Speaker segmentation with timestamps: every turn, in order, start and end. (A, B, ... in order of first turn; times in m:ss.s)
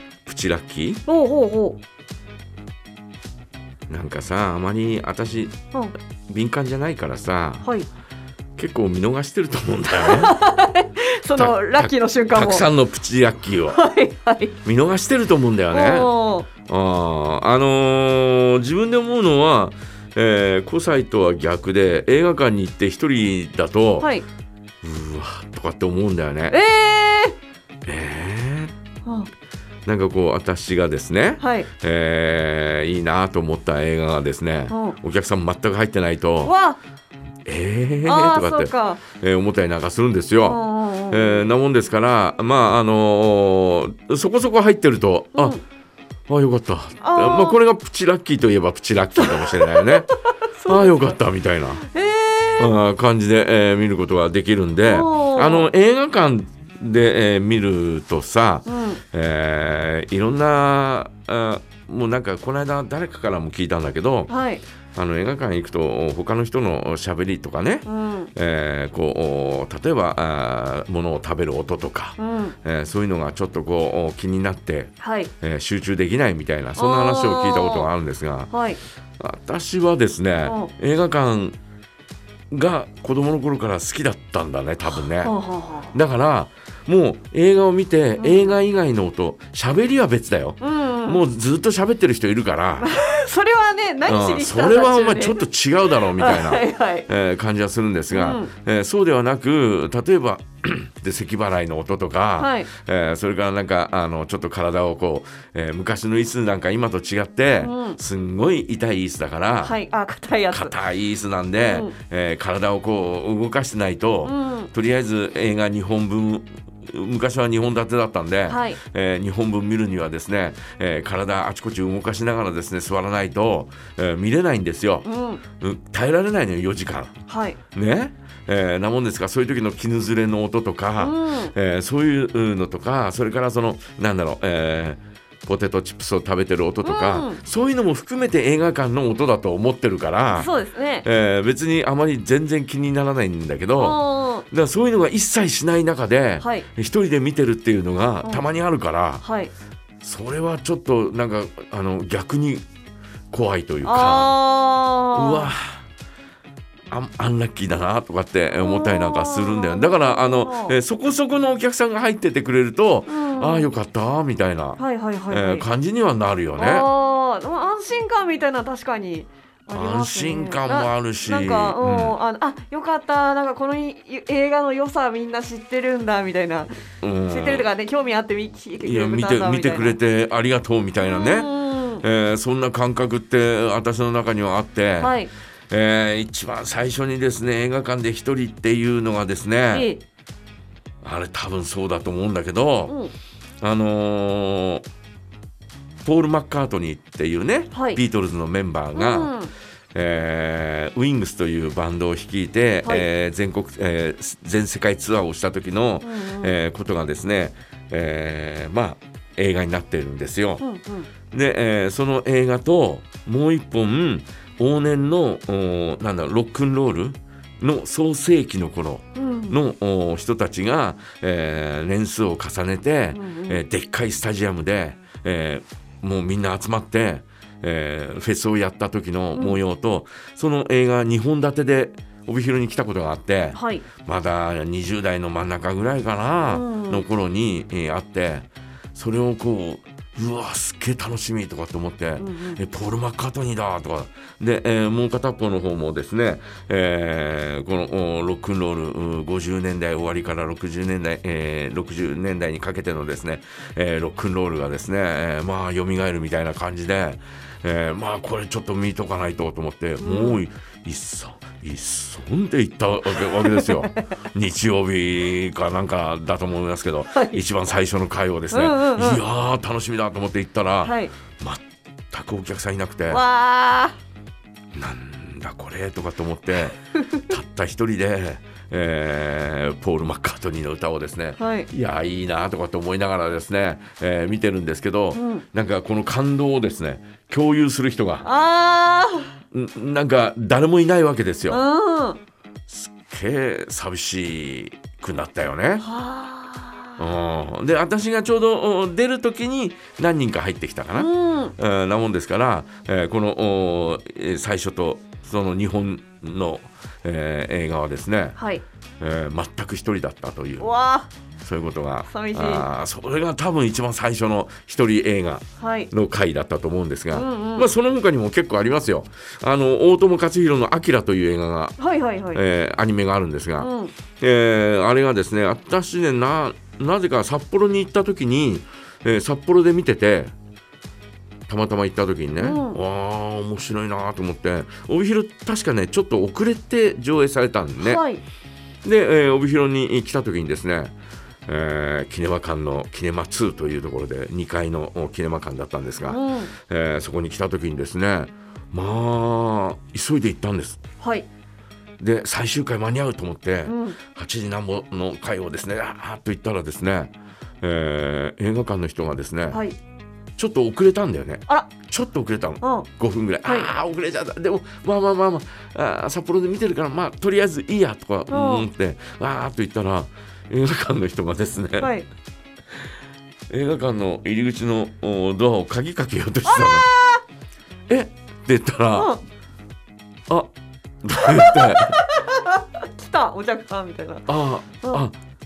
0:00.2-0:01.0 A
0:01.1-0:01.8 B
0:03.9-0:05.6 A
0:06.3-0:07.7 A
0:08.6-0:10.3 A
0:10.0-0:12.6 B
0:11.3-0:13.8 A
0:13.7-0:14.5 B
0:14.6-0:24.1 A
0:15.7-0:16.5 B
0:24.0-0:24.2 B
0:24.8-0:26.6 A
0:26.5-0:27.3 B
0:27.8-0:28.7 A
0:29.8-0:36.5 A
0:31.4-0:31.7 B
0:34.7-0:35.0 B
0:36.4-0:36.8 B
0:37.4-0:45.6 A
0:38.0-0:39.0 B
0:40.4-0:41.5 B
0:45.3-0:45.6 B
0:46.3-0:50.1 A
0:47.0-0:47.6 B
0:49.2-0:51.1 B
0:50.6-0:51.8 A
0:51.8-0:52.7 B
0:52.6-1:04.3 A
0:54.8-0:55.7 B
0:58.6-0:59.0 B
1:04.3-1:04.6 B
1:04.9-1:18.5 A
1:07.8-1:08.3 B
1:12.2-1:12.5 B
1:15.0-1:15.3 B
1:16.8-1:17.9 B
1:18.5-1:18.8 B
1:19.2-1:21.6 A
1:20.4-1:20.7 B
1:22.5-1:25.3 A
1:24.9-1:25.9 B
1:25.9-1:32.9 A
1:28.2-1:28.6 B
1:30.6-1:31.2 B
1:32.8-1:35.4 B
1:34.1-1:49.8 A
1:36.0-1:37.0 B
1:38.1-1:38.5 B
1:42.4-1:42.7 B
1:47.6-1:48.0 B
1:49.6-1:50.7 B
1:50.5-2:20.5 A
1:51.6-1:51.9 B
1:54.2-1:54.7 B
1:58.5-1:58.8 B
2:05.0-2:05.4 B
2:07.3-2:07.6 B
2:11.0-2:11.5 B
2:16.8-2:17.4 B
2:20.4-2:21.0 B
2:21.0-2:29.2 A
2:23.8-2:24.4 B
2:26.4-2:26.7 B
2:29.2-2:29.5 B
2:30.0-2:32.6 A
2:33.3-2:34.3 A
2:33.8-2:35.5 B
2:35.1-2:35.8 A
2:36.9-2:46.9 A
2:38.6-2:40.8 B
2:43.1-2:43.7 B
2:44.8-2:45.6 B
2:46.6-2:56.7 B
2:49.7-2:52.2 A
2:57.0-2:57.7 A
2:57.3-3:00.0 B
2:58.8-3:01.5 A
3:01.0-3:02.0 B
3:02.0-3:05.1 A
3:05.0-3:05.3 B
3:05.7-3:09.9 A
3:09.7-3:10.0 B
3:11.0-3:12.9 A
3:12.9-3:13.1 B
3:13.6-3:14.8 A
3:16.0-3:19.3 A
3:17.7-3:18.0 B
3:18.9-3:19.5 B
3:19.9-3:30.6 A
3:26.0-3:26.5 B
3:30.6-3:31.1 B
3:31.3-4:33.2 A
3:39.2-3:39.6 B
3:43.1-3:43.6 B
3:49.3-3:49.6 B
3:53.5-3:53.8 B
3:56.4-3:57.0 B
4:02.2-4:02.6 B
4:20.0-4:20.4 B
4:23.4-4:24.0 B
4:27.1-4:27.4 B
4:28.5-4:29.2 B
4:30.8-4:31.1 B
4:33.1-4:34.0 B
4:34.7-4:48.2 A
4:41.4-4:41.7 B
4:45.1-4:45.4 B
4:48.2-4:49.3 B
4:49.5-4:51.6 A
4:51.5-4:52.2 B
4:52.7-4:55.8 A
4:55.8-4:56.9 B
4:57.0-5:08.4 A
5:00.9-5:01.5 B
5:08.4-5:08.6 B
5:09.0-5:10.7 A
5:10.6-5:11.1 B
5:11.4-5:21.8 A
5:12.1-5:12.7 B
5:15.6-5:15.9 B
5:17.1-5:17.7 B
5:21.8-5:22.4 B
5:22.3-5:30.3 A
5:23.6-5:23.9 B
5:31.5-5:38.0 A
5:32.4-5:32.8 B
5:37.8-5:38.2 B
5:38.8-5:40.9 A
5:41.5-5:50.8 A
5:46.0-5:46.5 B
5:51.0-5:51.3 B
5:52.0-5:59.6 A
5:53.6-5:54.0 B
5:59.5-5:59.8 B
6:00.4-6:11.9 A
6:01.5-6:01.7 B
6:02.6-6:02.9 B
6:08.3-6:08.7 B
6:11.8-6:12.1 B
6:13.5-6:16.9 A
6:16.5-6:17.2 B
6:17.9-6:19.1 A
6:18.9-6:19.2 B
6:21.0-6:22.0 A
6:21.3-6:24.3 B
6:24.2-6:25.1 A